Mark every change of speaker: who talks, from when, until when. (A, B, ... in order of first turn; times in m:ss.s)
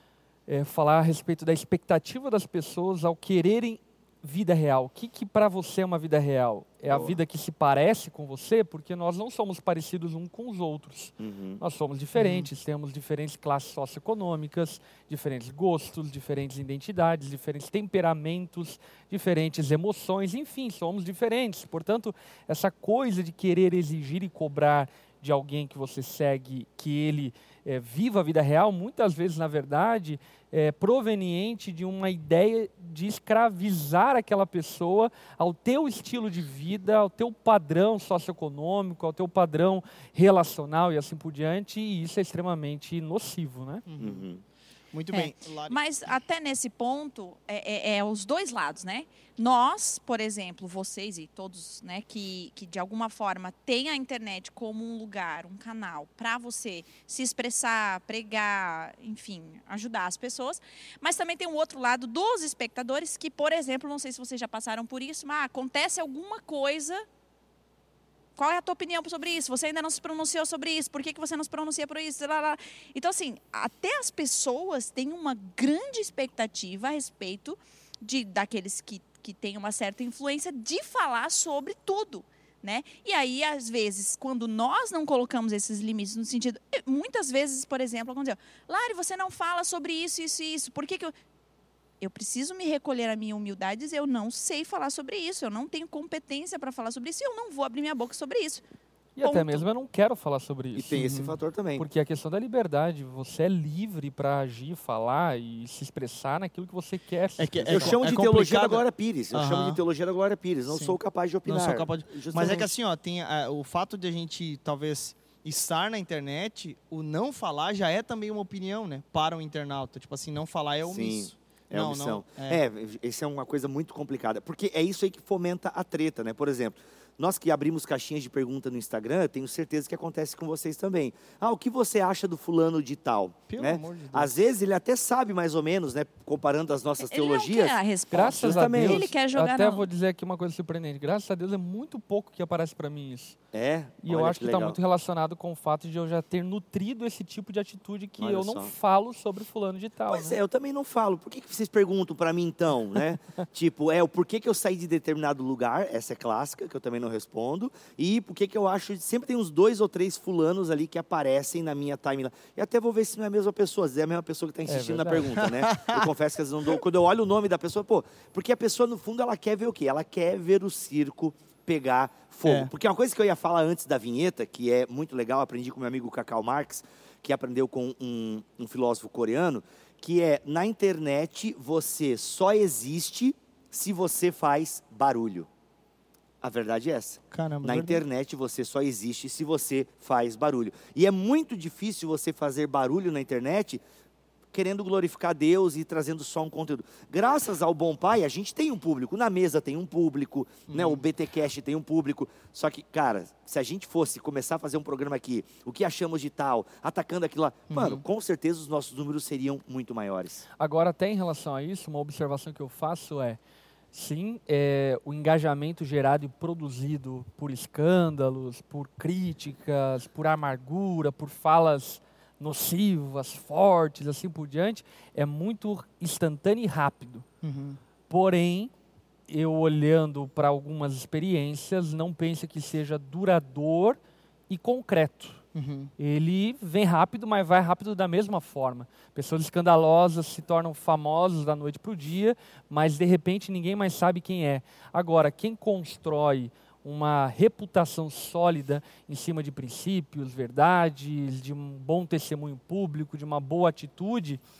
0:00.5-0:43.8 A
0:06.9-0:07.2 B
0:11.2-0:11.6 B
0:12.2-0:12.5 C
0:43.9-0:44.3 C
0:44.0-0:44.4 B
0:44.9-0:45.8 C
0:45.1-1:07.0 D
1:08.4-1:31.1 D
1:32.0-1:38.6 D
1:39.2-1:41.1 A
1:39.2-1:39.6 D
1:40.8-1:41.9 B
1:40.9-1:41.3 C
1:41.8-1:48.0 A
1:47.4-1:49.8 C
1:47.7-1:52.7 B
1:50.7-2:02.6 C
2:00.8-2:19.1 B
2:13.5-2:14.3 C
2:17.0-2:19.9 D
2:18.1-2:23.4 A
2:23.5-2:24.8 B
2:24.0-2:30.4 A
2:28.2-2:28.7 B
2:30.1-3:05.5 B
2:44.7-2:45.4 A
2:45.4-2:46.1 C
3:06.4-3:13.8 B
3:07.3-3:08.0 C
3:14.5-3:30.4 B
3:20.7-3:21.0 C
3:27.7-3:28.0 C
3:30.6-3:33.4 A
3:33.9-3:47.2 A
3:47.4-3:47.8 C
3:48.1-3:48.7 A
3:49.3-3:55.4 A
3:55.5-3:55.9 C
3:56.0-4:14.4 A